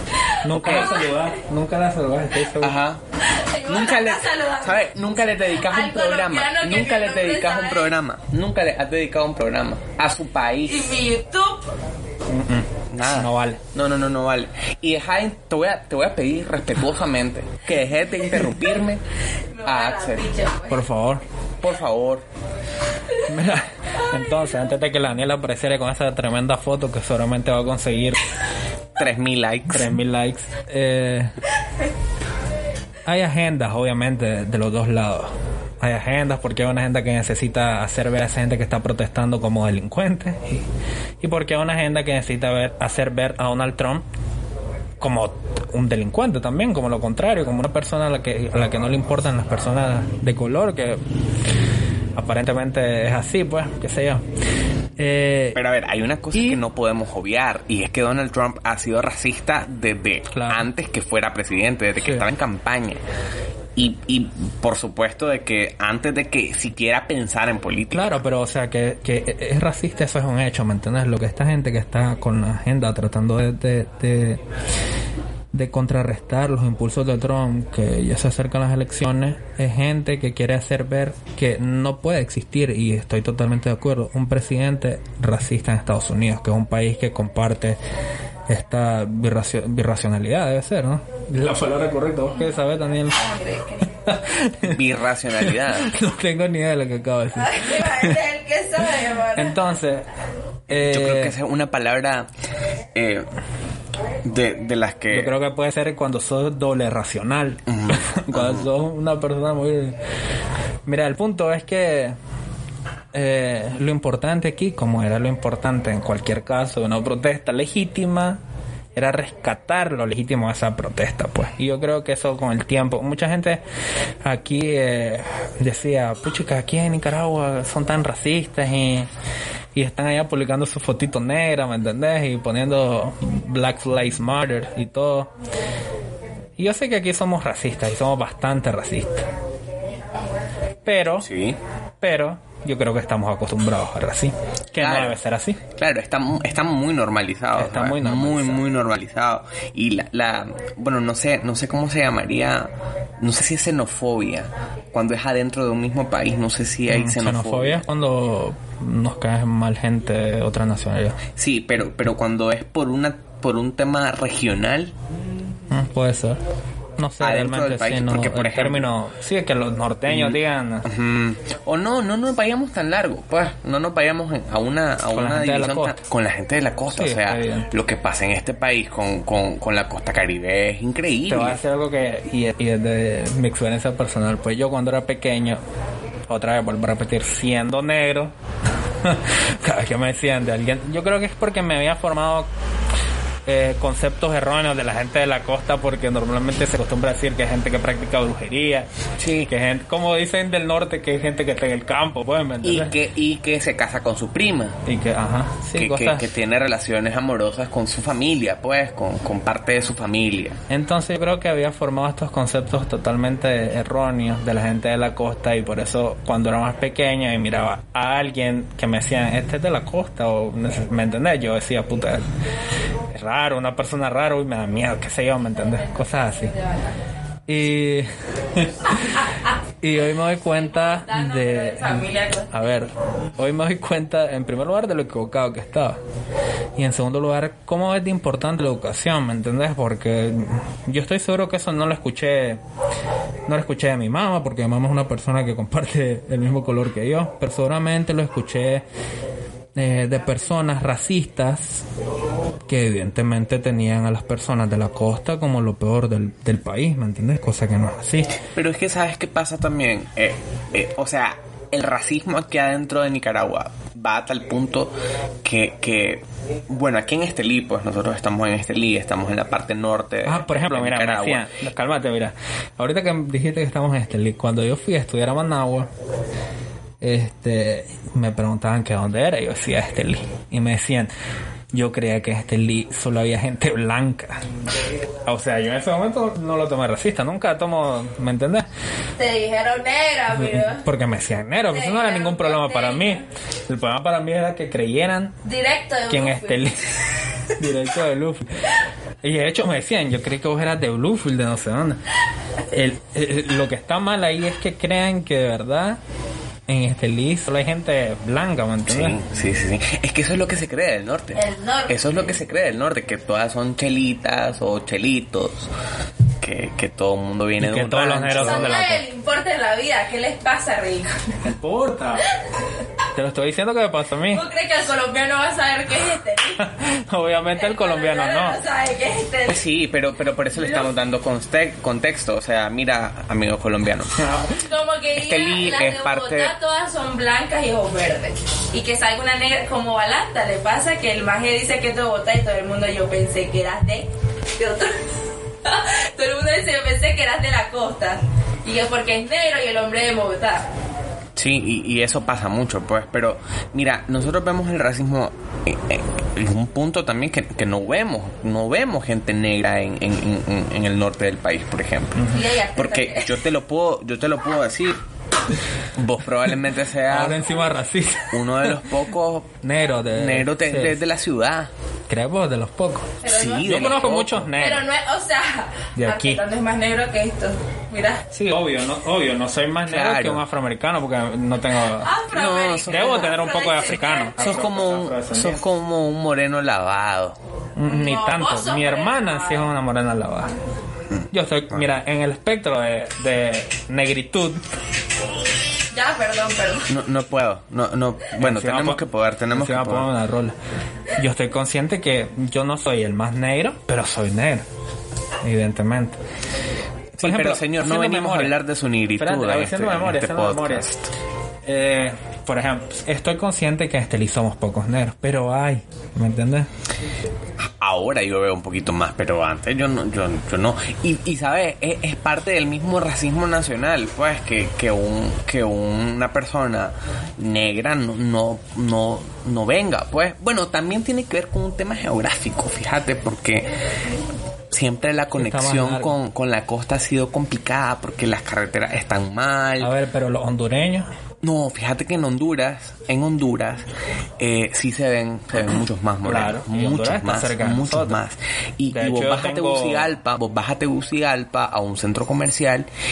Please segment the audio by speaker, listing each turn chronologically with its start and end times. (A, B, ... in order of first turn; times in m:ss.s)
0:00.4-0:02.8 A
0:00.6-0:01.3 B
0:00.6-0:01.0 C
0:02.6-0:03.0 C
0:03.3-0:07.9 B
0:03.6-0:11.0 C
0:10.7-0:11.7 B
0:12.3-0:13.6 A
0:12.9-0:19.0 C
0:19.5-0:20.8 B
0:19.6-0:20.3 C
0:20.7-0:21.2 A
0:21.6-0:22.2 C
0:23.2-0:28.2 A
0:29.0-0:30.0 C
0:29.7-0:31.4 A
0:33.1-0:40.7 A
0:41.2-0:44.0 A
0:45.0-0:51.0 A
0:52.2-0:54.2 A
0:55.0-0:55.6 A
0:55.6-1:03.0 C
0:56.4-0:56.6 A
1:00.3-1:00.7 A
1:02.0-1:02.2 A
1:03.8-1:08.2 C
1:07.9-1:14.4 A
1:15.5-1:27.8 A
1:28.5-1:33.2 A
1:33.1-1:33.9 B
1:34.0-1:34.8 A
1:34.6-1:35.9 C
1:35.3-1:38.2 A
1:37.4-1:39.6 B
1:39.4-1:40.1 A
1:40.7-1:41.4 A
1:40.7-1:42.3 C
1:42.9-1:43.3 C
1:44.2-1:45.3 C
1:45.1-1:50.0 A
1:47.7-1:48.7 C
1:50.9-1:52.2 A
1:53.1-1:58.4 A
1:59.0-2:03.6 A
2:04.2-2:09.1 A
2:09.8-2:15.3 A
2:16.6-2:19.3 A
2:20.8-2:21.3 A
2:21.2-2:21.6 C
2:22.0-2:25.6 A
2:24.8-2:25.2 C
2:25.8-2:37.8 C
2:27.6-2:28.6 A
2:36.9-2:41.2 A
2:41.4-2:44.9 C
2:45.7-2:46.4 A
2:47.0-2:50.9 A
2:47.2-2:48.9 C
2:50.1-3:01.6 C
2:55.1-2:56.0 A
2:56.9-2:57.7 A
3:01.3-3:05.6 A
3:06.3-3:08.3 A
3:09.0-3:12.5 A
3:13.5-3:18.9 A
3:19.2-3:19.5 C
3:19.5-3:22.9 A
3:22.6-3:24.8 C
3:24.9-3:26.3 A
3:25.7-3:30.6 C
3:30.7-3:42.2 A
3:43.1-3:46.5 A
3:46.3-3:46.9 B
3:47.5-3:49.3 A
3:49.8-3:56.0 A
3:50.4-3:52.7 B
3:56.8-4:02.6 A
4:03.5-4:08.8 A
4:09.8-4:11.8 A
4:12.7-4:18.4 A
4:18.4-4:31.5 C
4:30.2-4:35.9 A
4:37.0-4:41.1 A
4:41.7-4:44.4 A
4:45.3-4:48.7 A
4:49.2-4:50.8 B
4:50.4-4:55.4 A
4:51.7-4:53.2 B
4:55.4-4:56.7 B
4:56.1-4:56.9 A
4:57.6-4:58.6 A
4:59.2-5:02.0 A
5:02.7-5:06.0 A
5:06.7-5:09.2 A
5:08.9-5:15.7 C
5:11.4-5:12.1 B
5:16.4-5:18.8 C
5:17.6-5:19.0 A
5:18.4-5:21.2 B
5:21.4-5:22.3 A
5:23.2-5:24.4 A
5:24.3-5:26.6 B
5:26.6-5:28.6 A
5:27.6-5:29.6 B
5:29.5-5:34.3 C
5:30.5-5:30.9 B
5:34.2-5:34.6 A
5:34.6-5:45.1 B
5:35.2-5:36.5 C
5:45.6-5:50.7 B
5:51.4-6:05.0 C
6:02.3-6:03.4 B
6:06.0-6:07.4 C
6:07.1-6:08.8 A
6:08.3-6:09.5 C
6:09.6-6:11.0 A
6:10.1-6:11.7 C
6:12.1-6:14.8 A
6:13.2-6:18.3 B
6:13.2-6:14.5 C
6:16.0-6:16.4 A
6:18.3-6:22.2 A
6:19.8-6:20.4 C
6:22.0-6:24.6 B
6:22.3-6:23.5 C
6:22.9-6:25.6 A
6:24.4-6:27.4 C
6:27.8-6:30.5 A
6:27.9-6:29.7 B
6:31.3-6:34.6 A
6:35.9-6:36.9 B
6:36.9-6:40.1 C
6:38.4-6:39.0 A
6:39.5-6:40.6 A
6:41.2-6:44.6 A
6:45.4-6:46.2 A
6:47.2-6:51.1 C
6:47.2-6:48.6 A
6:49.2-6:50.9 A
6:51.7-6:56.7 A
6:57.6-7:13.7 C
7:14.7-7:19.9 C
7:15.4-7:16.2 A
7:19.8-7:21.1 A
7:21.4-7:23.9 C
7:24.4-7:32.9 C
7:26.2-7:28.2 A
7:28.9-7:30.1 A